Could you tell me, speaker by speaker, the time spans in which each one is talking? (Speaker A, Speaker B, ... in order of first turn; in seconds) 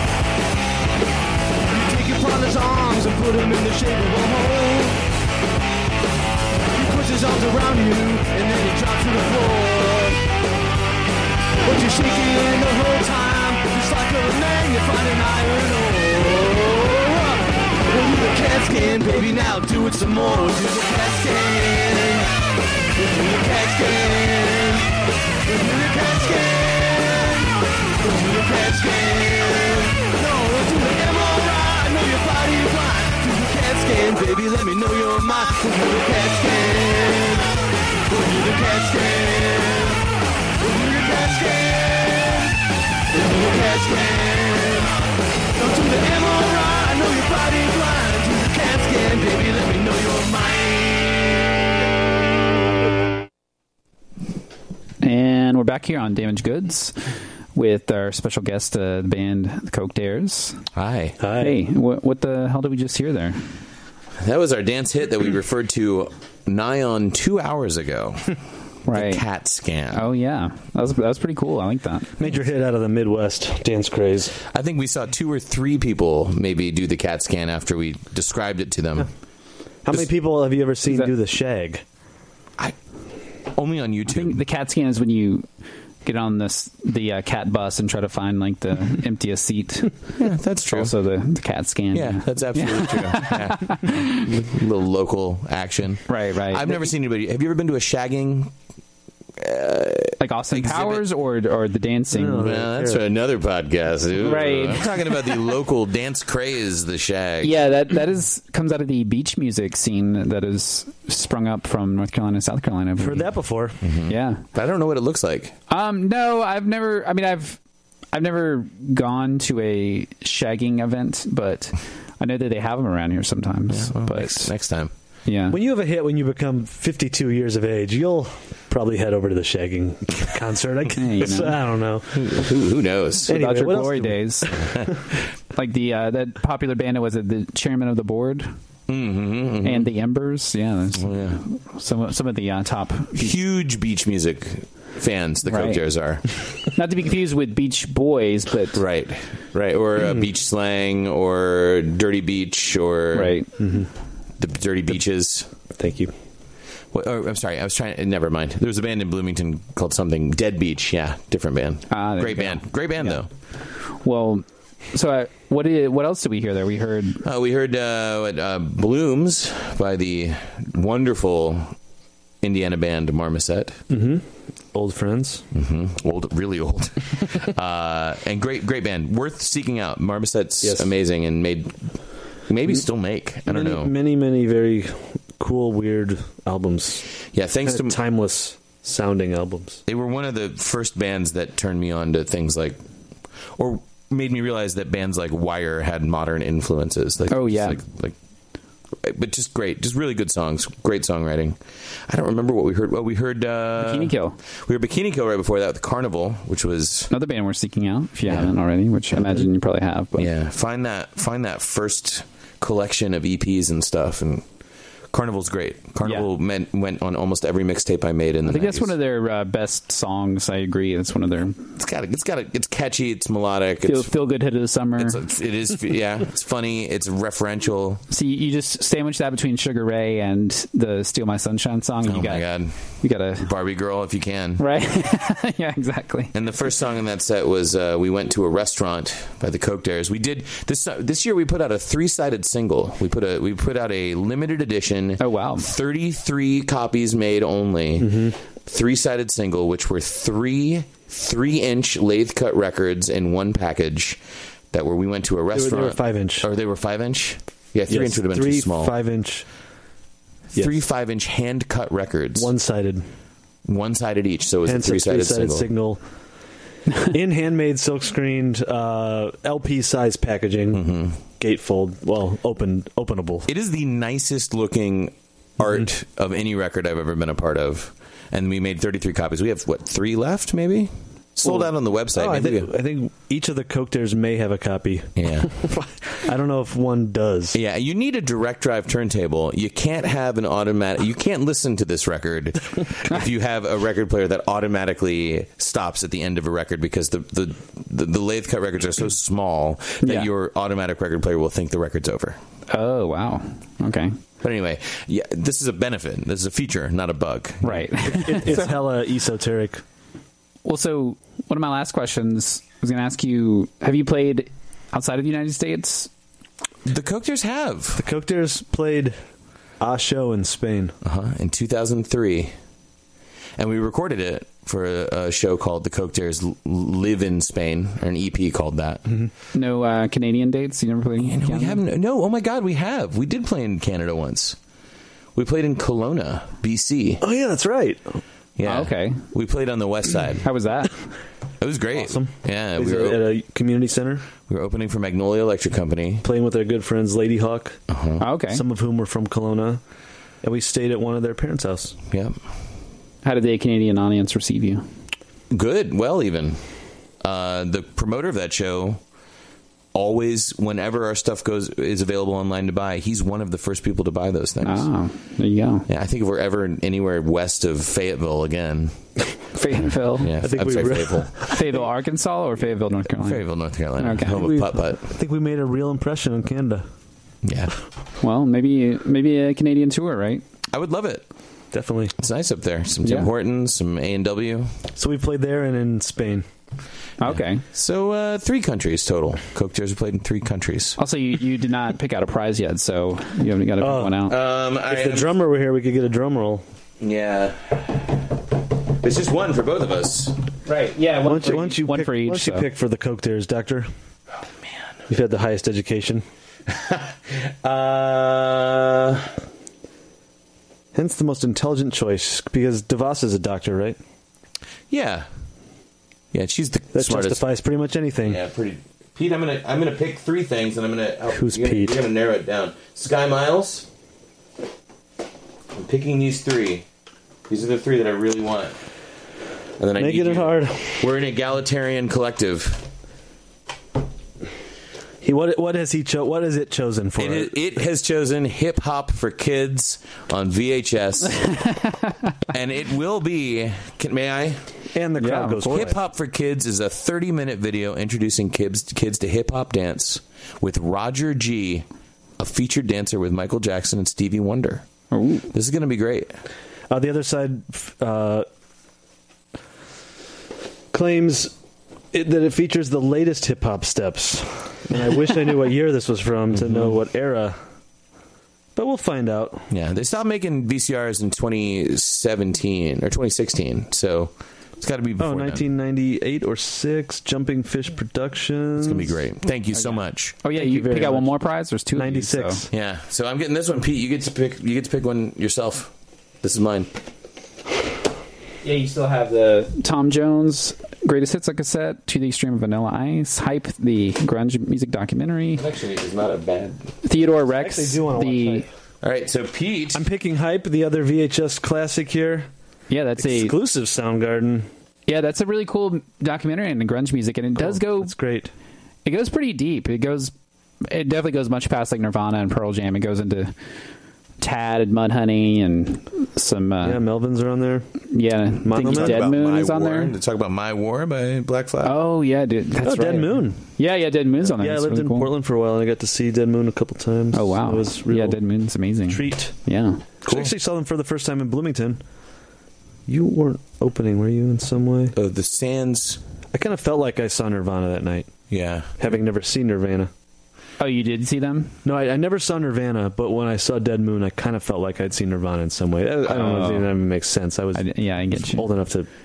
Speaker A: 1.7-5.0, 6.7-10.2, 11.6-22.3, 23.0-24.9, 25.5-37.5, 38.1-40.0, 40.6-42.5, 43.1-45.0, 45.5-51.5
Speaker B: 55.0-57.0, 57.5-60.6, 61.4-63.4, 68.9-69.2, 69.9-72.2, 84.1-85.5, 86.0-90.0, 90.7-94.3, 96.1-96.9, 100.2-102.5, 104.2-105.0, 107.4-113.3, 114.1-114.4, 115.7-117.6, 118.1-124.5, 125.3-125.6, 130.9-131.6, 133.3-134.5, 135.6-138.5, 139.6-143.3, 145.5-145.8, 146.8-148.8, 153.1-153.5, 161.9-163.2, 163.9-167.2, 197.3-197.8, 203.8-204.4, 207.1-210.3, 216.0-216.3, 218.5-221.6, 223.8-225.2, 228.1-233.5, 234.6-236.3, 245.2-245.7, 300.0-300.3, 302.7-304.2, 307.6-308.8, 310.6-316.1, 329.5-331.8, 338.7-339.2, 340.4-341.1, 348.2-348.6, 353.2-354.9, 364.6-365.9, 369.6-370.4, 371.5-374.5, 378.2-380.4, 383.0-383.3, 387.2-387.6, 391.0-394.4, 400.7-402.7, 441.4-442.2, 445.2-445.9, 455.1-455.5, 479.7-482.6, 488.6-495.6, 497.0-498.6, 502.9-503.6, 505.1-508.1, 509.1-510.3, 510.8-513.5, 514.4-517.0, 518.1-520.1, 521.8-525.3, 527.3-530.0, 540.8-541.8, 546.3-546.9, 547.8-548.7
Speaker C: 60.7-61.2, 64.2-68.3, 68.9-70.1, 74.5-79.1, 83.5-84.4, 90.2-90.9, 91.9-98.5, 99.4-101.1, 102.4-107.6, 113.8-115.5, 123.7-124.9, 132.1-133.3, 138.9-139.9, 140.9-141.4, 143.2-146.2, 148.7-153.4, 154.4-155.5, 156.9-163.3, 167.2-171.8, 172.4-173.8, 175.5-181.8, 182.5-183.9, 187.3-188.0, 189.9-192.8, 193.6-198.2, 199.0-207.1, 208.2-208.5, 210.2-214.4, 215.1-218.9, 221.8-224.1, 225.0-228.0, 232.0-234.6, 236.3-254.2, 254.7-258.9, 260.5-262.5, 263.7-265.7, 270.7-271.2, 273.5-282.7, 285.2-285.6, 287.5-302.4, 304.4-307.8, 316.9-318.0, 321.0-322.5, 323.6-329.0, 331.2-334.6, 335.4-337.2, 338.6-340.5, 341.6-343.3, 344.5-346.3, 347.9-348.2, 352.1-352.4, 355.5-356.6, 357.2-359.0, 359.9-364.9, 365.9-368.9, 370.2-371.4, 373.2-375.1, 377.4-377.7, 380.7-381.3, 382.2-384.7, 387.2-391.0, 394.3-395.3, 397.0-398.2, 399.0-400.4, 406.7-409.3, 414.9-415.3, 416.3-417.4, 418.2-423.9, 425.7-426.9, 427.5-428.8, 429.8-432.9, 437.2-441.5, 442.5-444.6, 445.7-451.9, 452.4-454.9, 455.5-456.3, 466.5-467.0, 469.7-475.6, 478.8-480.4, 482.7-486.9, 495.5-496.9, 499.0-500.0, 518.8-522.0, 530.3-530.5, 535.1-536.2, 538.5-538.9
Speaker D: 61.2-61.6, 72.2-74.3, 79.8-81.8, 102.1-103.0, 113.0-113.8, 125.5-132.5, 133.3-134.8, 153.6-153.9, 155.8-156.1, 173.9-175.5, 180.6-180.9, 183.4-187.1, 187.6-189.8, 248.0-248.4, 255.5-256.5, 257.9-259.5, 262.4-263.1, 264.6-266.0, 267.1-273.5, 281.4-287.6, 308.0-309.8, 318.0-319.2, 319.8-320.9, 337.2-338.2, 342.0-344.3, 346.2-347.8, 348.5-349.8, 350.4-352.0, 370.4-371.8, 374.3-376.8, 381.7-382.1, 385.0-386.4, 393.8-394.2, 394.9-396.6, 401.2-403.9, 405.1-406.2, 410.9-414.0, 416.9-418.4, 421.3-422.0, 430.0-430.9, 435.2-437.6, 444.9-446.0, 456.9-458.5, 460.9-461.5, 462.1-467.6, 468.8-469.6, 475.2-479.2, 480.5-481.4, 481.9-482.7, 497.4-498.7, 499.9-502.5, 503.2-504.7, 507.6-508.5, 516.8-517.9, 518.6-519.3, 522.8-523.6, 524.4-528.4, 529.1-529.5, 530.2-532.0, 533.1-535.1, 536.5-538.3, 539.0-540.1, 541.9-549.1